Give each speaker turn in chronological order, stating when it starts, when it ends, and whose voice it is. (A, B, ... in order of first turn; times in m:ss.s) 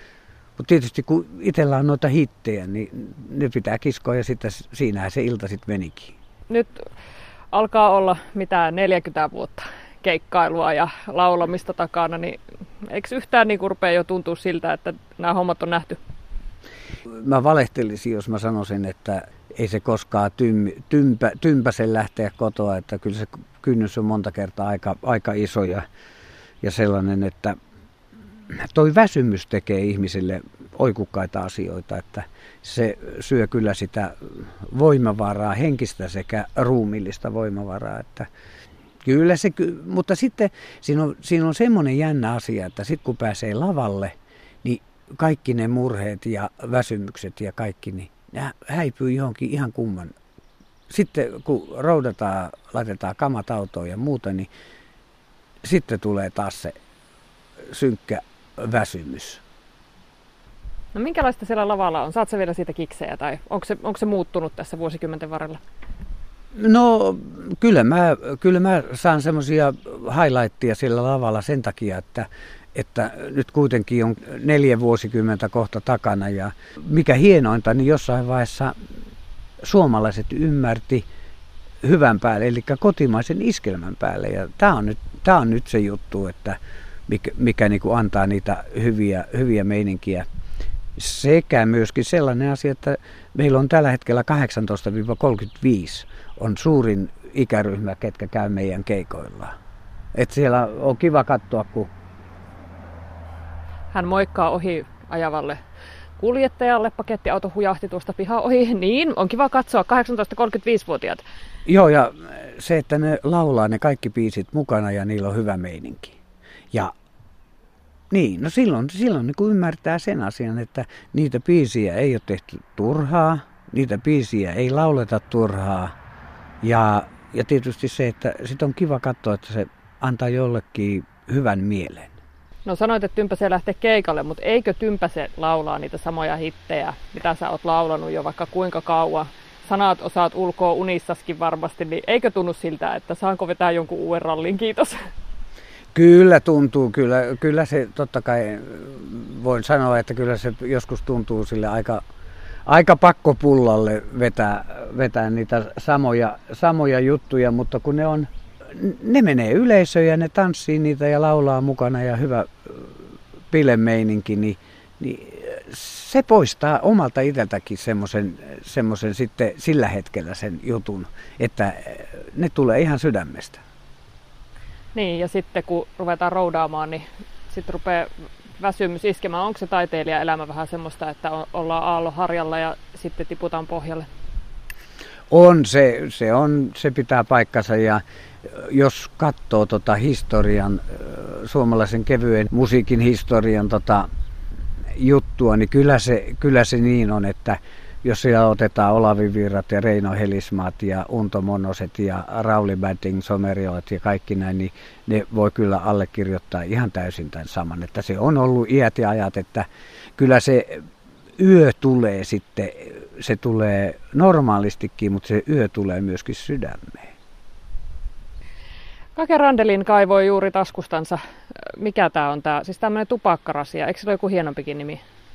0:00.6-0:06.1 A
0:06.5-0:06.8 B
0:07.5-0:16.0 B
0:17.2-0:25.8 A
0:26.6-0:27.6 A
0:28.5-0:38.3 A
0:39.0-0:50.2 A
0:50.9-0:54.5 A
0:55.6-0:56.7 A
0:57.7-0:59.4 A
1:00.9-1:05.6 B
1:06.5-1:18.8 A
1:19.6-1:21.0 A
1:21.8-1:30.2 A
1:31.0-1:39.5 A
1:40.1-1:41.9 A
1:43.9-1:45.6 B
1:46.2-1:51.2 B
1:51.6-1:56.2 A
1:58.1-2:05.9 A
2:06.6-2:12.2 A
2:12.6-2:25.0 B
2:25.9-2:32.0 A
2:32.6-2:53.6 A
2:54.9-3:04.1 B
3:05.3-3:14.1 A
3:14.9-3:29.6 A
3:30.2-3:30.8 A
3:31.4-3:37.1 A
3:39.2-3:45.0 B